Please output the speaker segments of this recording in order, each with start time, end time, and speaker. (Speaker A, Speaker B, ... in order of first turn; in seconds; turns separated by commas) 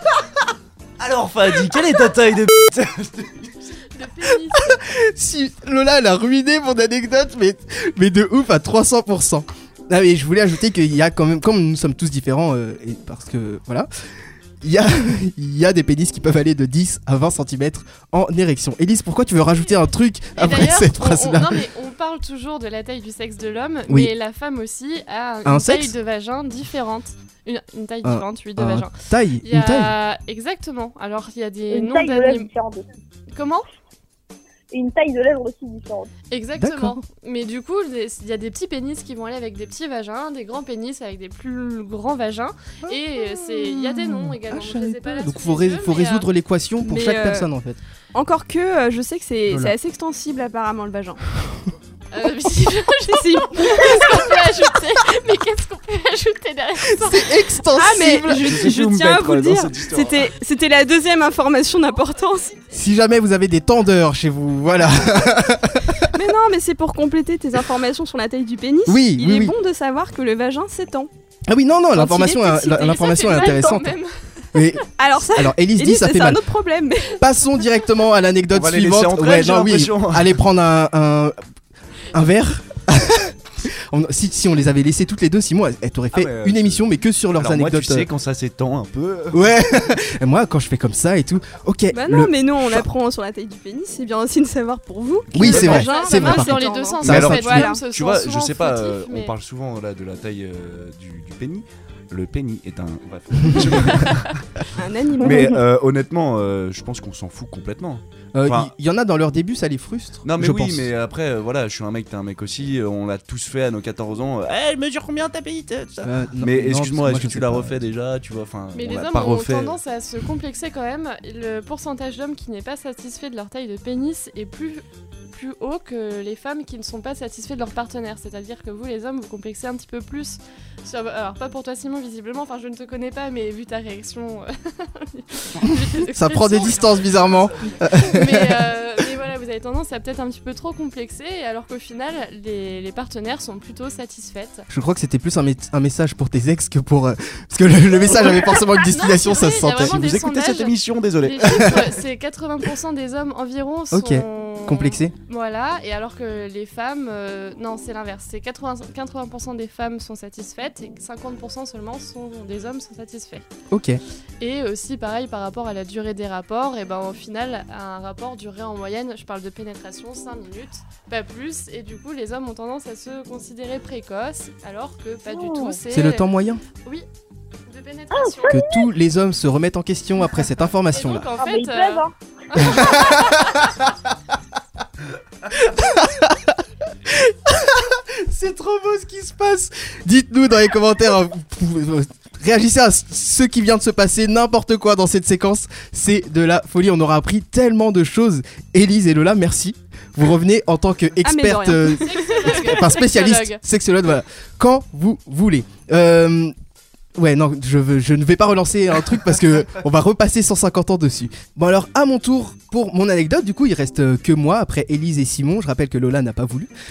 Speaker A: 1.0-3.5, Speaker B: 3.8-4.8, Speaker C: 4.5-13.9, Speaker C: 14.6-21.6, Speaker B: 20.4-32.5, Speaker C: 25.4-25.9, Speaker C: 28.0-29.9, Speaker D: 31.7-32.8, Speaker B: 33.3-33.7, Speaker D: 34.7-36.1, Speaker B: 36.3-46.3, Speaker C: 36.6-37.0, Speaker C: 42.9-47.8, Speaker E: 46.8-47.5, Speaker E: 48.1-51.2, Speaker C: 49.5-49.7, Speaker B: 52.1-57.4, Speaker E: 53.0-54.2, Speaker C: 56.8-58.5, Speaker E: 57.7-62.5, Speaker A: 58.4-60.3, Speaker C: 62.7-66.1, Speaker E: 66.0-71.1, Speaker C: 68.9-69.5, Speaker C: 71.5-74.0, Speaker E: 71.9-72.9, Speaker B: 72.5-74.1, Speaker C: 74.5-76.4, Speaker E: 75.0-77.2, Speaker C: 77.2-81.4, Speaker A: 78.5-80.4, Speaker C: 82.1-88.1, Speaker A: 86.1-89.5, Speaker C: 89.3-92.9, Speaker E: 91.9-97.8, Speaker C: 95.3-97.4, Speaker B: 95.4-99.3, Speaker A: 97.0-104.5, Speaker B: 103.9-104.2, Speaker E: 104.7-105.6, Speaker A: 105.2-108.7, Speaker C: 108.3-110.9, Speaker A: 110.2-119.8, Speaker C: 116.0-117.8, Speaker B: 118.7-144.7, Speaker C: 135.6-138.7, Speaker C: 144.7-150.0, Speaker B: 148.3-163.4, Speaker A: 149.7-151.9, Speaker C: 151.4-151.8, Speaker C: 153.9-155.1, Speaker C: 163.7-164.0, Speaker B: 164.4-176.3, Speaker D: 175.3-175.8, Speaker C: 175.9-176.6, Speaker B: 177.7-178.6, Speaker D: 178.1-178.8, Speaker C: 178.5-181.3, Speaker B: 180.9-183.7, Speaker D: 181.4-182.1, Speaker C: 182.6-183.7, Speaker C: 185.5-206.5, Speaker E: 201.2-202.6, Speaker B: 201.8-203.6, Speaker C: 207.2-216.7